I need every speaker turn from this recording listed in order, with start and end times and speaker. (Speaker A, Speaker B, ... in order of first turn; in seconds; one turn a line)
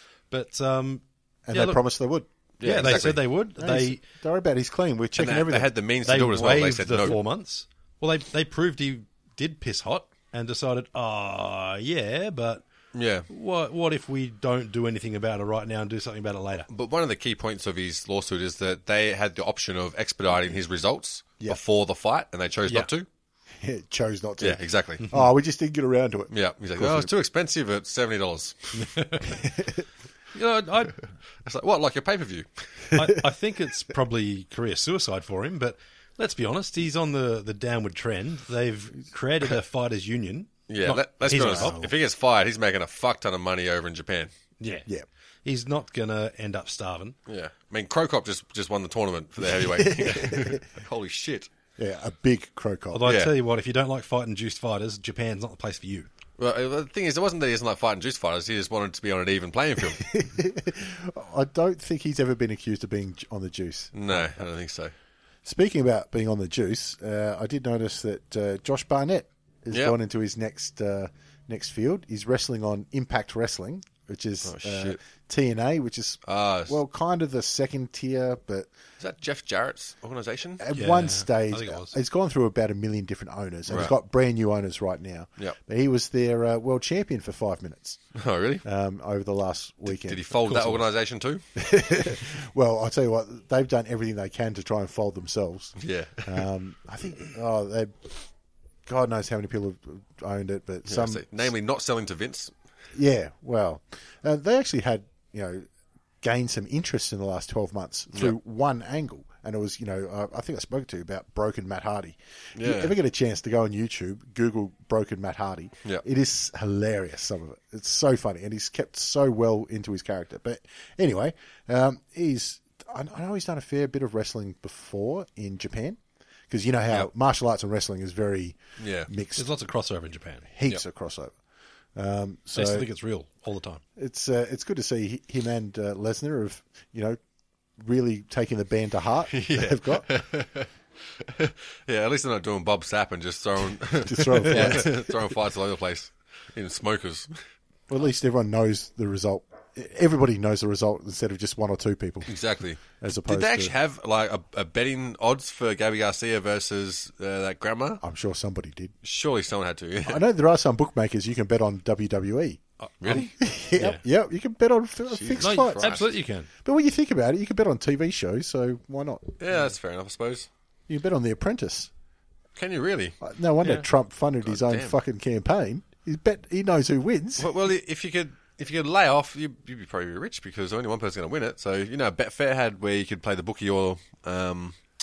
Speaker A: 0.3-1.8
Speaker B: 1.4-5.7
Speaker C: 2.6-3.2
Speaker A: 2.6-4.0
Speaker C: 5.2-7.2
Speaker A: 6.0-12.6
Speaker C: 12.9-13.3
Speaker A: 13.3-16.7
Speaker C: 16.7-23.1
Speaker B: 23.6-27.1
Speaker C: 24.4-25.1
Speaker C: 26.3-29.0
Speaker A: 28.8-29.2
Speaker B: 29.3-29.8
Speaker A: 30.3-31.0
Speaker C: 31.4-32.9
Speaker A: 32.9-41.9
Speaker C: 40.7-44.3
Speaker B: 41.3-41.8
Speaker A: 44.6-44.9
Speaker A: 45.4-47.1
Speaker C: 47.3-51.5
Speaker B: 49.4-50.6
Speaker B: 51.8-53.1
Speaker A: 52.9-56.1
Speaker C: 53.0-53.3
Speaker C: 56.4-60.1
Speaker B: 59.8-64.5
Speaker C: 63.9-64.9
Speaker B: 65.4-78.7
Speaker C: 74.4-75.0
Speaker C: 76.2-76.8
Speaker C: 79.0-80.6
Speaker B: 80.6-88.0
Speaker A: 80.7-82.0
Speaker C: 83.7-83.9
Speaker C: 88.2-88.6
Speaker B: 88.6-90.8
Speaker C: 89.8-91.4
Speaker B: 91.5-98.3
Speaker C: 95.8-96.4
Speaker B: 98.8-101.5
Speaker C: 100.9-102.5
Speaker B: 102.9-105.7
Speaker B: 106.2-129.5
Speaker C: 112.5-112.9
Speaker C: 128.8-129.1
Speaker A: 129.3-130.5
Speaker B: 130.5-131.3
Speaker B: 131.9-132.9
Speaker A: 132.5-133.8
Speaker B: 133.9-137.2
Speaker B: 137.8-140.1
Speaker C: 139.3-140.7
Speaker C: 141.2-147.4
Speaker B: 144.0-145.3
Speaker B: 147.9-153.7
Speaker C: 152.3-158.0
Speaker B: 158.0-158.9
Speaker C: 159.0-160.2
Speaker B: 160.0-166.0
Speaker C: 163.0-163.3
Speaker A: 163.1-164.0
Speaker C: 165.1-166.1
Speaker A: 165.4-166.5
Speaker B: 166.6-169.4
Speaker C: 169.4-170.5
Speaker B: 170.9-171.9
Speaker C: 172.6-173.2
Speaker B: 173.2-177.5
Speaker C: 174.4-175.0
Speaker C: 177.4-184.8